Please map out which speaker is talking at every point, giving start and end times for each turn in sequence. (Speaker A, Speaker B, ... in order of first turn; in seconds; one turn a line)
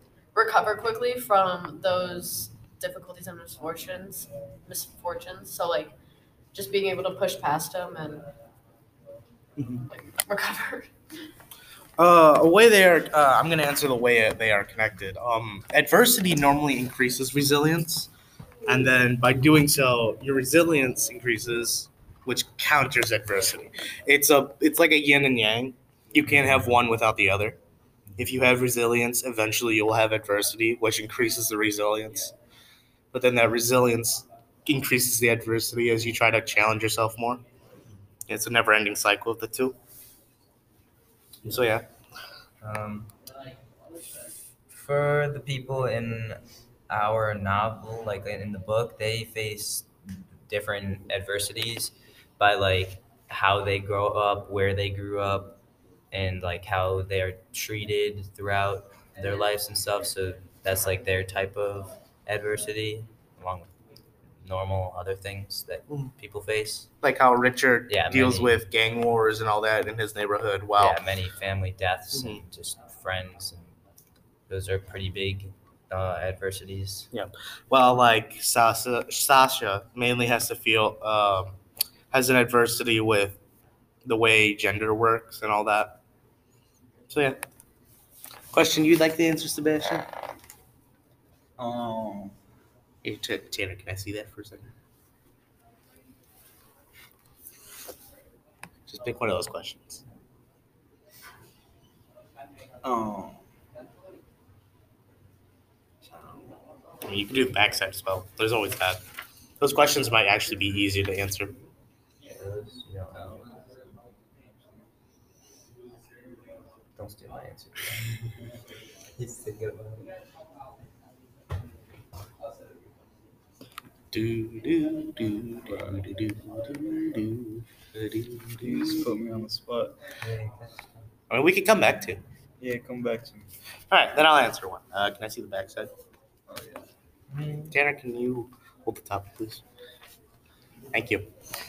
Speaker A: 0.3-5.9
Speaker A: 6.5-8.2
Speaker B: 9.6-9.9
Speaker A: 9.9-10.9
Speaker B: 12.0-18.1
Speaker B: 18.6-27.6
Speaker B: 28.2-32.3
Speaker B: 33.1-37.4
Speaker B: 38.3-39.8
Speaker B: 41.4-41.9
Speaker C: 42.6-43.1
Speaker C: 44.7-49.9
Speaker C: 50.5-55.6
Speaker C: 56.1-63.7
Speaker C: 64.4-66.9
Speaker B: 67.0-71.0
Speaker C: 67.9-68.6
Speaker C: 70.8-73.8
Speaker B: 72.1-72.4
Speaker C: 74.5-77.1
Speaker B: 77.1-81.6
Speaker B: 82.1-83.4
Speaker B: 84.0-86.0
Speaker B: 87.1-87.4
Speaker B: 88.5-90.1
Speaker D: 91.6-92.3
Speaker B: 93.0-94.7
Speaker B: 98.9-100.0
Speaker D: 102.8-103.4
Speaker B: 107.0-109.0
Speaker B: 109.6-111.6
Speaker C: 112.3-113.6
Speaker C: 117.0-118.3
Speaker C: 119.2-120.1
Speaker B: 124.1-129.1
Speaker D: 125.7-126.0
Speaker D: 128.6-130.0
Speaker C: 130.2-131.1
Speaker B: 131.3-132.2
Speaker D: 132.6-133.5
Speaker B: 133.9-135.9
Speaker C: 137.3-137.8
Speaker B: 137.7-139.6
Speaker B: 140.9-141.3